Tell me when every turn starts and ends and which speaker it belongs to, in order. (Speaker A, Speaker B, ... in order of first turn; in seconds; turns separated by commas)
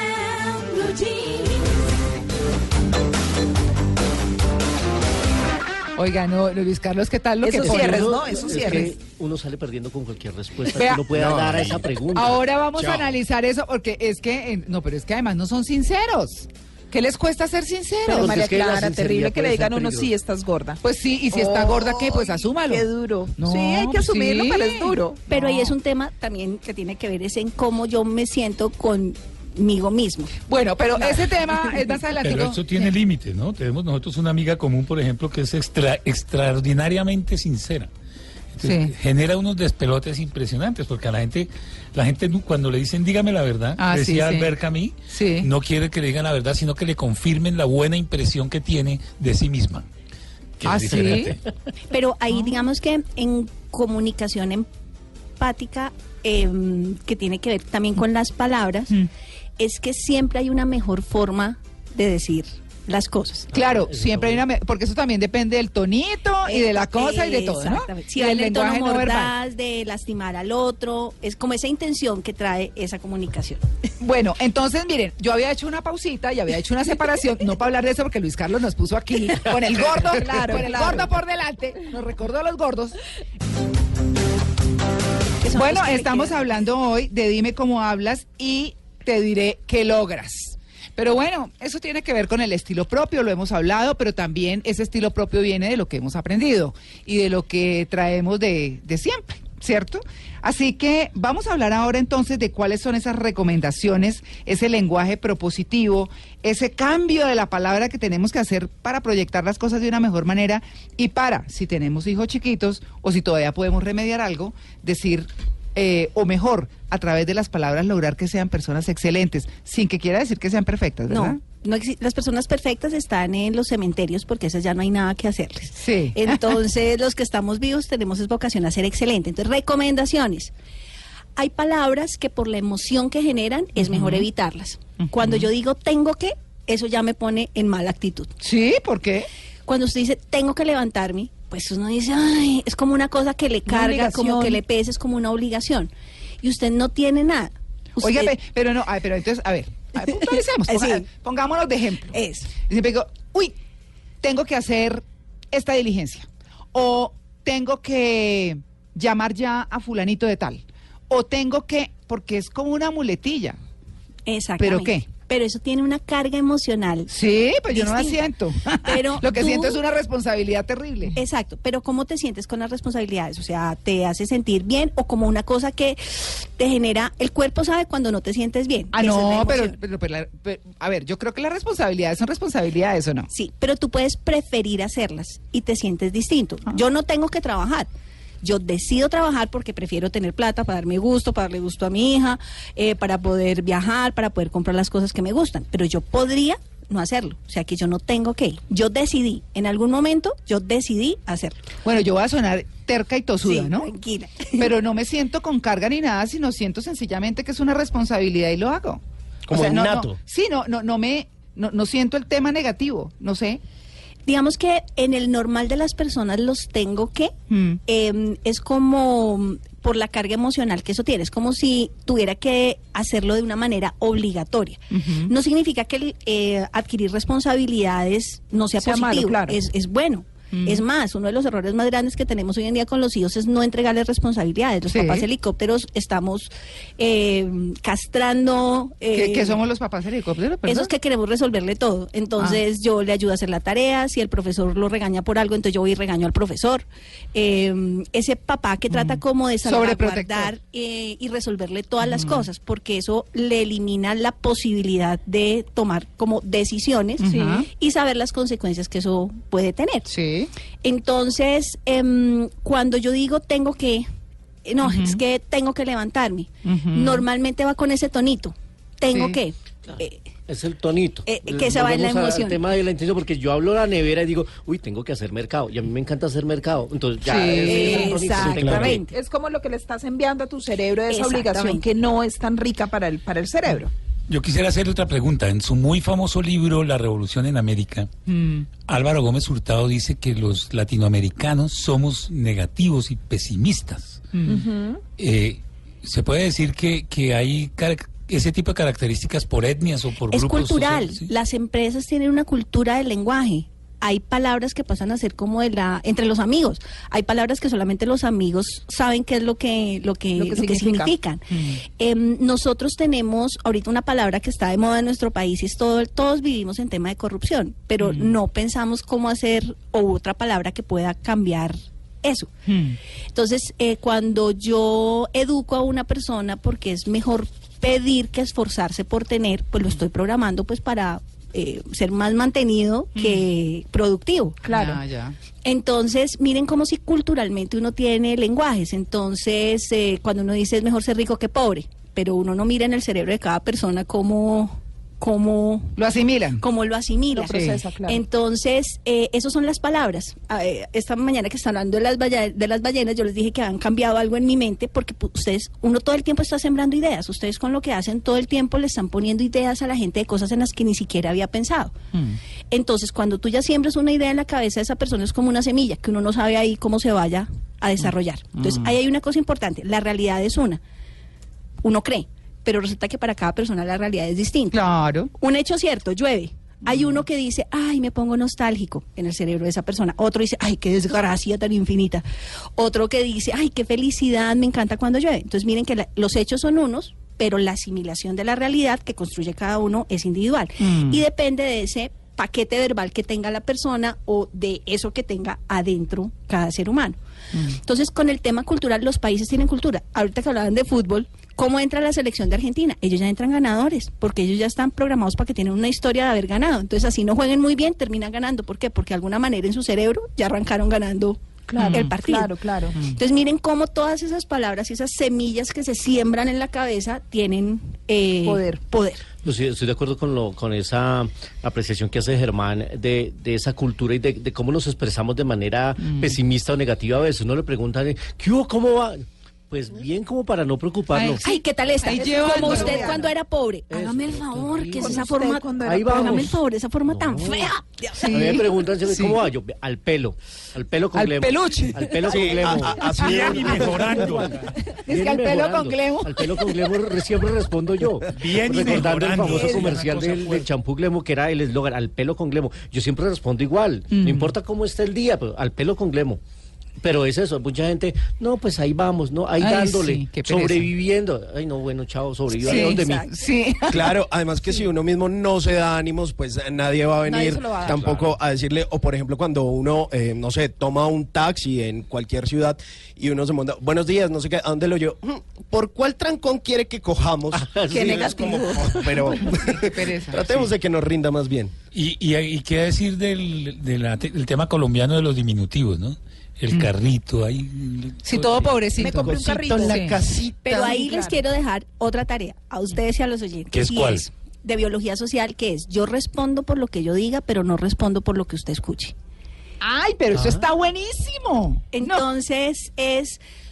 Speaker A: 0.8-1.5, Speaker B: 6.0-8.9, Speaker A: 7.4-9.0, Speaker C: 7.5-12.4, Speaker B: 10.7-11.2, Speaker D: 11.2-11.8, Speaker B: 12.1-18.3, Speaker A: 18.1-25.2, Speaker C: 18.1-20.1, Speaker B: 20.8-25.7, Speaker E: 25.3-30.3, Speaker B: 30.5-32.9, Speaker A: 31.0-31.2, Speaker F: 32.2-37.9, Speaker F: 38.5-49.9, Speaker B: 38.6-38.9, Speaker B: 43.8-44.5, Speaker B: 45.1-45.5, Speaker F: 50.6-51.4, Speaker B: 50.6-51.4, Speaker C: 50.9-51.4, Speaker E: 51.9-54.7, Speaker E: 55.4-59.0, Speaker E: 59.6-63.5, Speaker C: 63.5-64.4, Speaker B: 63.5-69.3, Speaker E: 66.5-73.6, Speaker B: 74.0-83.0, Speaker A: 79.8-81.1, Speaker E: 85.4-86.3, Speaker B: 85.5-121.4, Speaker E: 121.1-130.5, Speaker B: 125.8-126.6, Speaker E: 131.4-138.3, Speaker B: 133.8-134.3, Speaker B: 135.0-135.5, Speaker B: 138.4-139.3, Speaker E: 139.7-145.9, Speaker B: 143.7-144.6, Speaker E: 146.4-148.3, Speaker B: 148.0-153.6, Speaker E: 150.0-151.1, Speaker E: 152.1-152.5, Speaker B: 154.2-163.6, Speaker E: 164.3-167.1, Speaker B: 164.6-165.1, Speaker B: 167.1-171.2, Speaker E: 167.7-168.2, Speaker E: 168.8-169.8, Speaker E: 171.2-179.8, Speaker B: 178.9-183.3, Speaker E: 183.3-187.9, Speaker E: 188.4-201.6, Speaker B: 201.8-203.9, Speaker E: 203.4-204.7, Speaker B: 204.6-213.6, Speaker D: 209.5-210.2, Speaker E: 214.3-217.3, Speaker B: 217.5-217.8, Speaker E: 217.9-239.6, Speaker B: 224.9-225.3, Speaker A: 228.8-229.6, Speaker B: 230.5-230.8, Speaker B: 234.9-235.3, Speaker B: 239.1-240.9, Speaker E: 240.7-260.1, Speaker B: 248.9-250.5, Speaker B: 252.0-252.5, Speaker B: 257.2-257.7, Speaker A: 257.3-257.6, Speaker B: 260.1-260.5, Speaker E: 260.8-264.1, Speaker E: 264.7-270.2, Speaker B: 264.8-265.2, Speaker B: 266.6-267.2, Speaker B: 269.1-269.4, Speaker C: 270.5-279.0, Speaker E: 271.3-272.6, Speaker B: 277.2-278.2, Speaker E: 277.6-279.1, Speaker D: 278.4-279.0, Speaker A: 279.1-283.9, Speaker E: 281.1-281.8, Speaker F: 284.3-288.1, Speaker B: 288.3-288.7, Speaker F: 288.9-294.2, Speaker B: 294.3-294.7, Speaker A: 294.5-295.0, Speaker F: 295.2-301.3, Speaker E: 300.3-311.4, Speaker A: 310.4-311.1, Speaker B: 311.5-311.8, Speaker E: 312.0-322.5, Speaker B: 318.0-318.4, Speaker B: 322.7-323.0, Speaker E: 323.3-334.6, Speaker B: 333.2-333.5, Speaker A: 334.7-335.0, Speaker B: 334.7-335.4, Speaker E: 335.6-346.0, Speaker B: 346.0-346.6, Speaker E: 346.6-361.9, Speaker A: 347.3-348.2, Speaker B: 347.5-347.8, Speaker B: 362.1-362.4, Speaker E: 362.7-370.8, Speaker B: 368.6-368.9, Speaker E: 371.8-374.8, Speaker B: 374.7-375.3, Speaker E: 375.4-382.2, Speaker B: 376.9-377.2, Speaker E: 382.8-397.2, Speaker B: 390.8-391.2, Speaker B: 397.5-397.8, Speaker E: 397.8-412.5, Speaker A: 411.7-413.0, Speaker B: 411.8-412.1, Speaker E: 413.0-419.2, Speaker A: 418.4-418.8, Speaker C: 419.4-431.4, Speaker B: 426.0-426.4, Speaker B: 431.1-433.1, Speaker E: 431.4-438.5, Speaker A: 432.1-433.2, Speaker C: 432.4-433.3, Speaker C: 433.9-456.4, Speaker A: 435.0-436.5, Speaker B: 438.2-439.4, Speaker B: 441.1-443.6, Speaker D: 442.3-444.3, Speaker F: 443.1-444.8, Speaker B: 444.9-446.7, Speaker F: 448.3-450.7, Speaker E: 449.5-449.9, Speaker B: 454.1-454.5, Speaker C: 457.0-463.3, Speaker B: 459.6-460.9, Speaker E: 462.6-463.3, Speaker B: 462.6-464.0, Speaker D: 463.9-481.7, Speaker A: 467.3-468.0, Speaker F: 467.9-468.3, Speaker C: 477.5-479.4, Speaker A: 477.9-479.4, Speaker B: 479.6-480.6, Speaker F: 481.9-488.9, Speaker B: 488.2-490.3, Speaker A: 489.0-491.4, Speaker D: 489.1-490.6, Speaker E: 490.6-499.1, Speaker F: 493.7-494.2, Speaker B: 499.8-502.3, Speaker E: 501.9-503.4